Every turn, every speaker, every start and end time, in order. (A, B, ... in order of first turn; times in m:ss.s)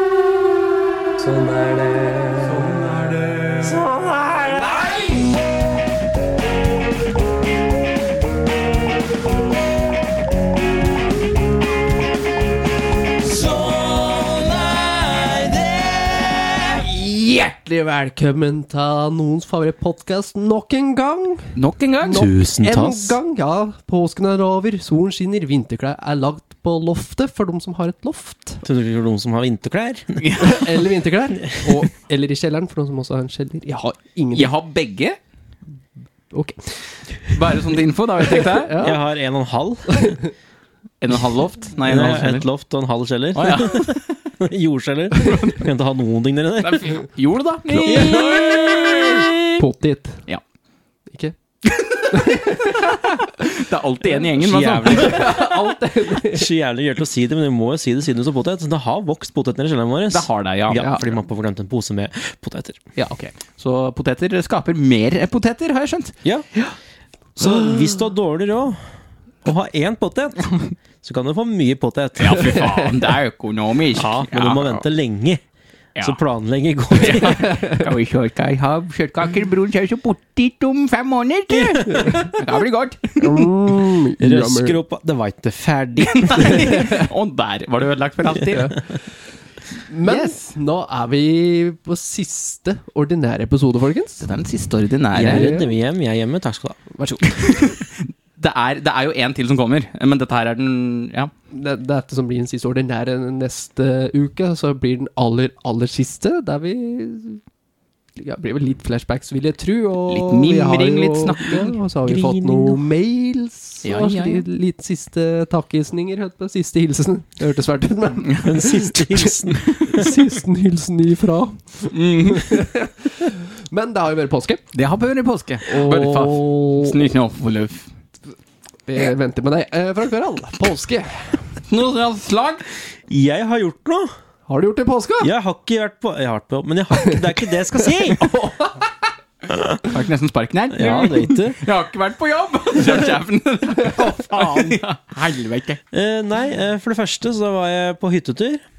0:01.2-0:05.1 A
0:13.9-0:14.4 A
0:15.1-0:15.6 A
0:16.6-0:21.5 B
0:21.6-0:22.2 C
0:22.0-0:28.6 B
0:22.1-0:23.2 A
0:28.6-0:30.6 A
0:30.2-0:30.7 C
0:30.4-0:34.5 B
0:31.4-0:31.9 A
0:34.3-0:35.2 C
0:36.3-0:39.0 B
0:37.3-0:38.8 C
0:38.8-0:40.2 A
0:39.9-0:40.2 B
0:41.0-0:42.4 C
0:41.8-0:47.0 A
0:43.3-0:44.0 C
0:45.2-0:45.6 C
0:46.6-0:49.6 C
0:47.7-0:50.2 B
0:47.8-0:48.7 A
0:51.6-0:55.4 C
0:52.1-0:53.1 B
0:54.4-0:55.5 A
0:54.8-0:56.5 B
0:56.2-1:02.8 A
1:00.1-1:01.1 C
1:00.8-1:01.0 B
1:03.0-1:06.1 C
1:07.4-1:08.8 A
1:09.4-1:12.8 A
1:12.2-1:14.8 C
1:12.6-1:12.9 B
1:13.9-1:15.4 A
1:16.0-1:17.6 A
1:16.9-1:23.5 C
1:17.4-1:17.8 B
1:21.6-1:22.2 A
1:21.9-1:22.3 B
1:23.2-1:24.8 B
1:24.2-1:26.7 A
1:26.0-1:28.8 C
1:26.5-1:27.1 B
1:28.3-1:29.0 B
1:29.9-1:34.2 B
1:30.0-1:30.4 C
1:34.2-1:35.5 C
1:35.1-1:36.8 A
1:35.2-1:35.7 B
1:36.9-1:37.7 B
1:37.3-1:41.3 C
1:41.5-1:47.4 B
1:48.2-2:04.6 B
1:50.1-1:51.8 C
1:52.0-1:52.8 A
1:53.8-1:54.4 C
1:58.4-2:00.2 A
2:01.9-2:02.6 C
2:04.7-2:07.8 C
2:05.6-2:07.0 B
2:08.9-2:11.4 B
2:11.7-2:12.6 C
2:13.1-2:14.1 A
2:14.5-2:15.3 B
2:15.2-2:18.2 A
2:18.2-2:18.9 B
2:19.5-2:19.8 A
2:19.8-2:25.8 C
2:20.7-2:21.6 A
2:23.9-2:24.8 B
2:25.9-2:28.6 A